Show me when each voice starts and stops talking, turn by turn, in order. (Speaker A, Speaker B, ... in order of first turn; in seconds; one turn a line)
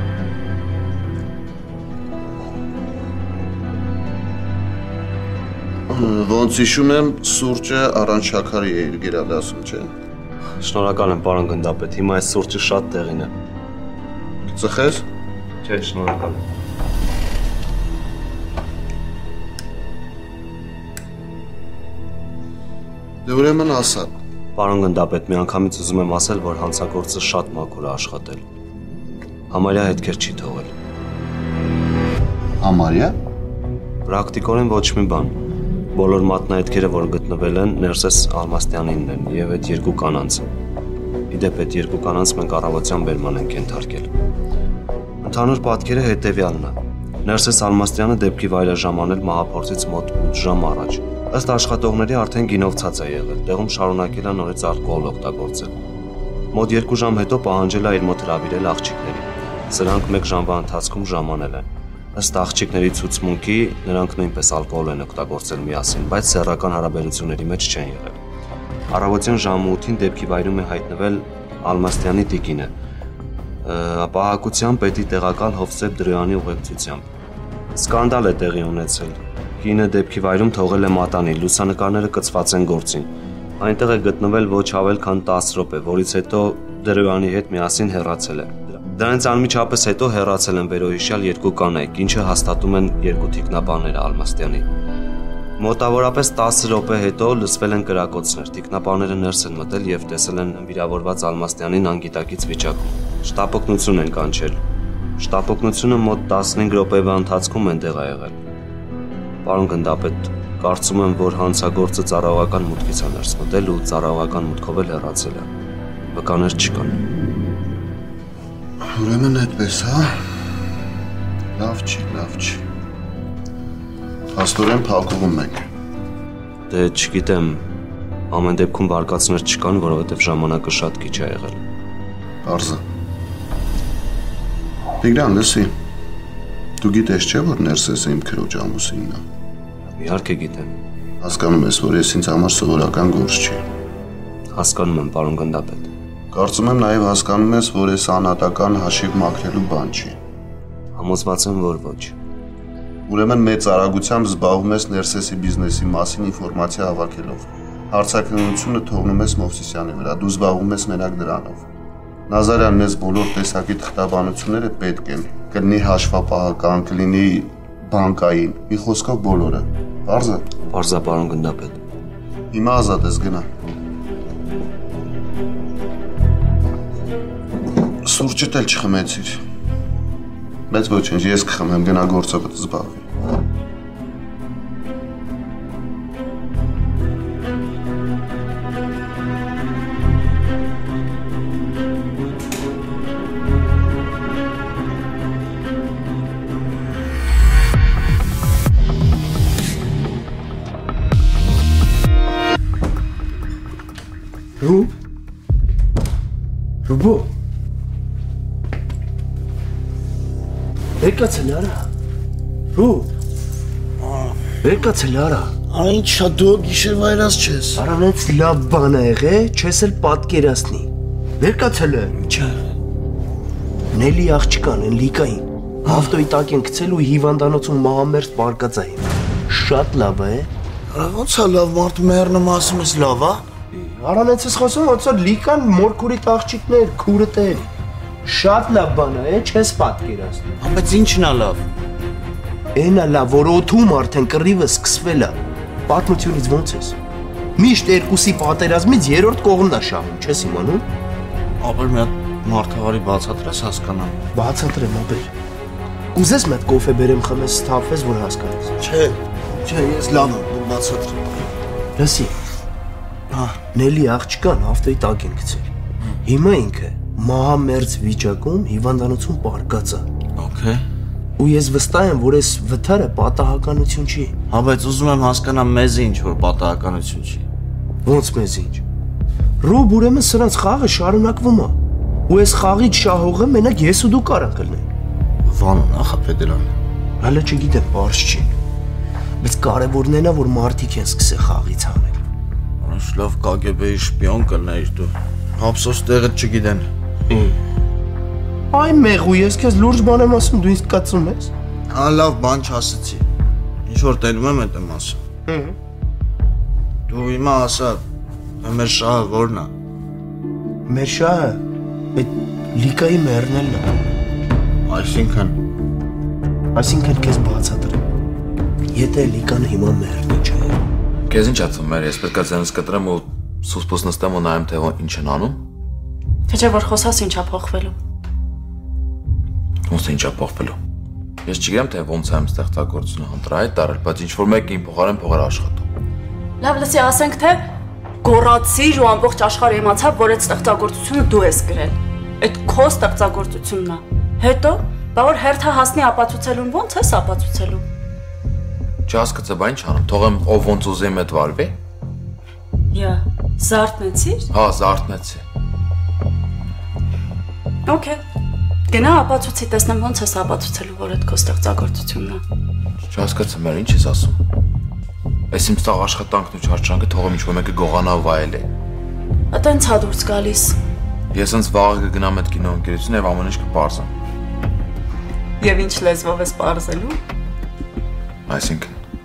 Speaker A: 5.9-9.9
Speaker B: 10.6-13.3
Speaker A: 14.5-15.0
Speaker B: 15.6-16.4
Speaker A: 23.2-24.1
Speaker B: 24.6-28.4
Speaker B: 29.5-30.7
Speaker A: 32.6-33.1
Speaker B: 34.0-35.3
Speaker B: 35.9-40.5
Speaker B: 41.3-44.1
Speaker B: 45.2-55.7
Speaker B: 56.5-68.2
Speaker B: 68.9-72.7
Speaker B: 73.6-77.1
Speaker B: 77.7-94.7
Speaker B: 95.6-104.6
Speaker B: 105.2-108.4
Speaker B: 109.4-115.5
Speaker B: 116.1-117.0
Speaker A: 118.8-120.3
Speaker A: 121.5-122.6
Speaker A: 124.3-125.7
Speaker B: 126.7-127.6
Speaker B: 128.3-131.6
Speaker A: 132.4-132.8
Speaker A: 135.0-135.7
Speaker A: 136.8-139.2
Speaker B: 139.9-140.7
Speaker A: 141.2-143.6
Speaker B: 144.5-145.9
Speaker A: 146.3-150.2
Speaker B: 150.9-152.1
Speaker A: 153.1-161.6
Speaker A: 162.3-170.4
Speaker B: 170.7-171.8
Speaker A: 172.5-173.5
Speaker A: 178.0-179.4
Speaker A: 180.7-183.1
Speaker C: 204.6-204.9
Speaker C: 206.8-207.3
Speaker C: 211.0-211.9
Speaker C: 212.7-213.1
Speaker C: 214.6-215.5
Speaker D: 215.7-217.8
Speaker C: 217.8-220.9
Speaker C: 221.4-222.1
Speaker D: 222.2-222.6
Speaker C: 223.9-230.5
Speaker D: 225.8-226.2
Speaker D: 230.9-233.4
Speaker C: 233.7-237.7
Speaker C: 238.2-240.4
Speaker D: 240.6-241.6
Speaker C: 242.7-245.3
Speaker C: 245.9-246.9
Speaker C: 247.6-250.8
Speaker D: 251.6-254.2
Speaker C: 254.3-255.3
Speaker C: 256.1-258.7
Speaker D: 258.8-261.3
Speaker C: 262.0-262.3
Speaker D: 263.3-263.6
Speaker C: 263.7-265.7
Speaker C: 266.2-270.0
Speaker D: 270.4-270.8
Speaker C: 271.4-274.4
Speaker D: 274.5-277.4
Speaker C: 278.0-278.8
Speaker C: 279.6-281.8
Speaker C: 282.3-284.8
Speaker D: 285.4-286.7
Speaker C: 287.2-288.5
Speaker C: 289.4-292.2
Speaker D: 292.8-297.5
Speaker C: 298.7-301.5
Speaker D: 301.9-303.2
Speaker D: 303.9-305.7
Speaker D: 307.1-308.0
Speaker D: 308.6-309.7
Speaker C: 310.9-311.6
Speaker C: 312.1-313.9
Speaker D: 314.9-315.6
Speaker C: 316.7-318.0
Speaker C: 318.9-320.8
Speaker E: 321.3-325.6
Speaker F: 326.5-327.9
Speaker E: 329.9-330.8
Speaker E: 331.4-335.9
Speaker F: 336.6-337.6
Speaker F: 338.2-347.8
Speaker E: 349.1-351.8
Speaker F: 352.9-354.5
Speaker E: 354.5-355.4
Speaker F: 357.9-358.2
Speaker F: 358.9-362.4
Speaker E: 363.0-364.4
Speaker E: 365.5-368.7
Speaker F: 369.5-370.8
Speaker E: 371.3-374.1
Speaker F: 375.6-377.2
Speaker E: 378.5-379.0